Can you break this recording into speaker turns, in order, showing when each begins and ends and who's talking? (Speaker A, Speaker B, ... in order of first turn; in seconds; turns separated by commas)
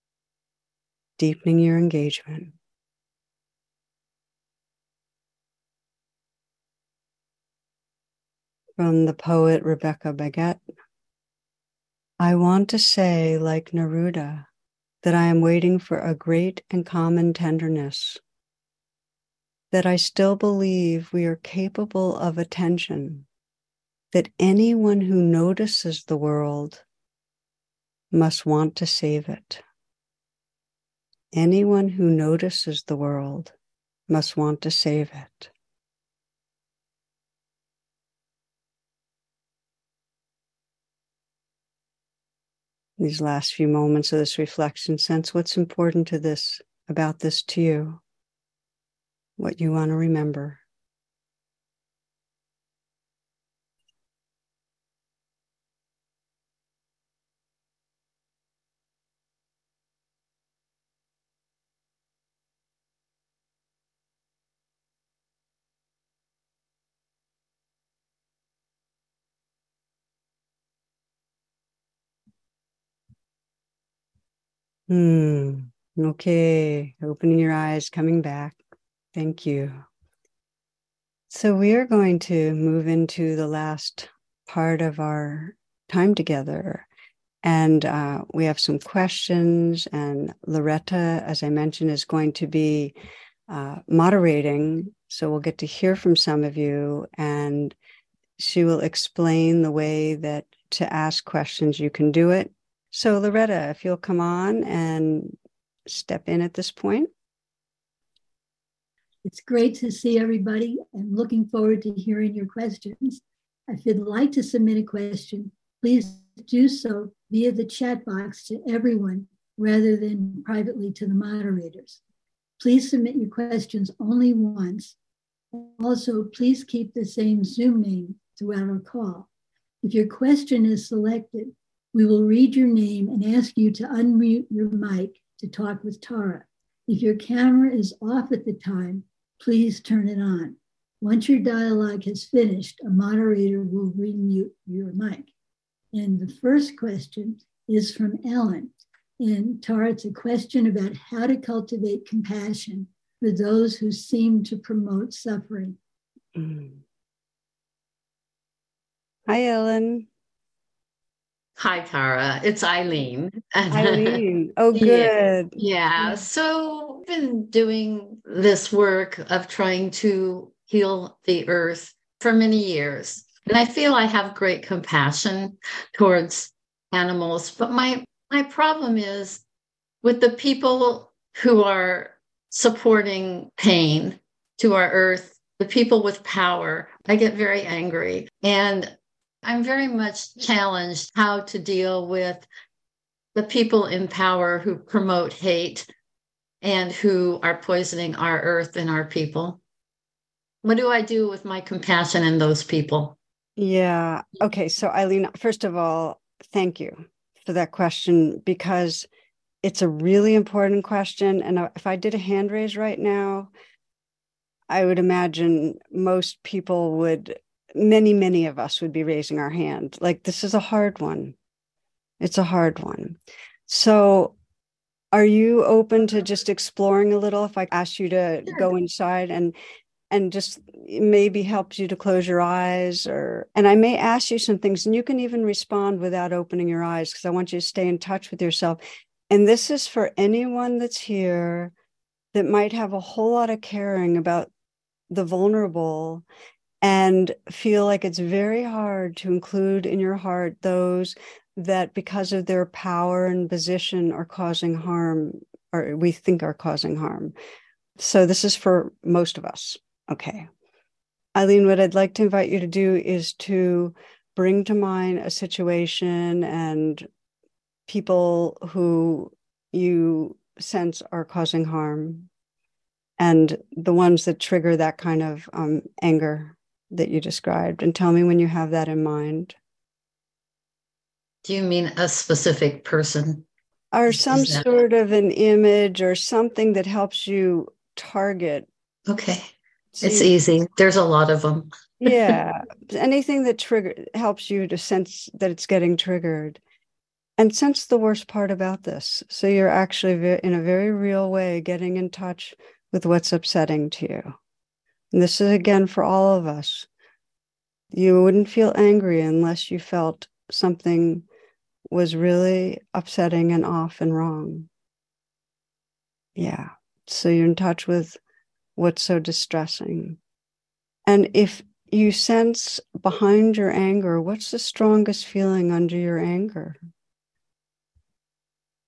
Speaker A: 1.2-2.5, Speaker A: 8.8-10.6, Speaker A: 12.2-14.5, Speaker A: 15.0-18.2, Speaker A: 19.7-23.2, Speaker A: 24.1-26.8, Speaker A: 28.1-29.6, Speaker A: 31.3-33.5, Speaker A: 34.1-35.5, Speaker A: 43.0-48.0, Speaker A: 49.4-50.6, Speaker A: 74.9-78.6, Speaker A: 79.1-79.8, Speaker A: 81.3-86.9, Speaker A: 87.4-92.9, Speaker A: 93.5-97.8, Speaker A: 98.4-105.3, Speaker A: 105.9-107.1, Speaker B: 109.2-122.0, Speaker B: 122.6-125.0, Speaker B: 125.5-129.3, Speaker B: 129.8-145.3, Speaker B: 145.9-155.8, Speaker A: 156.3-156.8, Speaker A: 159.3-160.1, Speaker C: 161.6-164.2, Speaker A: 163.7-165.6, Speaker C: 164.7-179.4, Speaker C: 180.0-192.5, Speaker C: 193.3-195.9, Speaker C: 196.6-199.6, Speaker C: 200.6-203.2, Speaker A: 203.6-209.1, Speaker A: 209.6-213.5, Speaker A: 214.7-221.3, Speaker A: 222.2-224.3, Speaker A: 225.1-229.5, Speaker A: 230.1-241.7, Speaker A: 242.3-244.5, Speaker A: 245.1-246.2, Speaker A: 246.8-257.3, Speaker A: 258.0-260.5, Speaker A: 261.3-267.1, Speaker A: 267.9-272.3, Speaker A: 273.2-279.5, Speaker C: 281.4-283.5, Speaker A: 283.9-288.7, Speaker C: 284.1-284.8, Speaker C: 289.1-289.5, Speaker A: 289.9-290.3, Speaker C: 290.0-292.4, Speaker A: 292.0-296.6, Speaker A: 297.4-304.3, Speaker A: 305.1-306.9, Speaker A: 307.9-311.2, Speaker A: 311.9-314.7, Speaker A: 316.4-318.2, Speaker A: 318.8-320.2, Speaker A: 321.1-326.8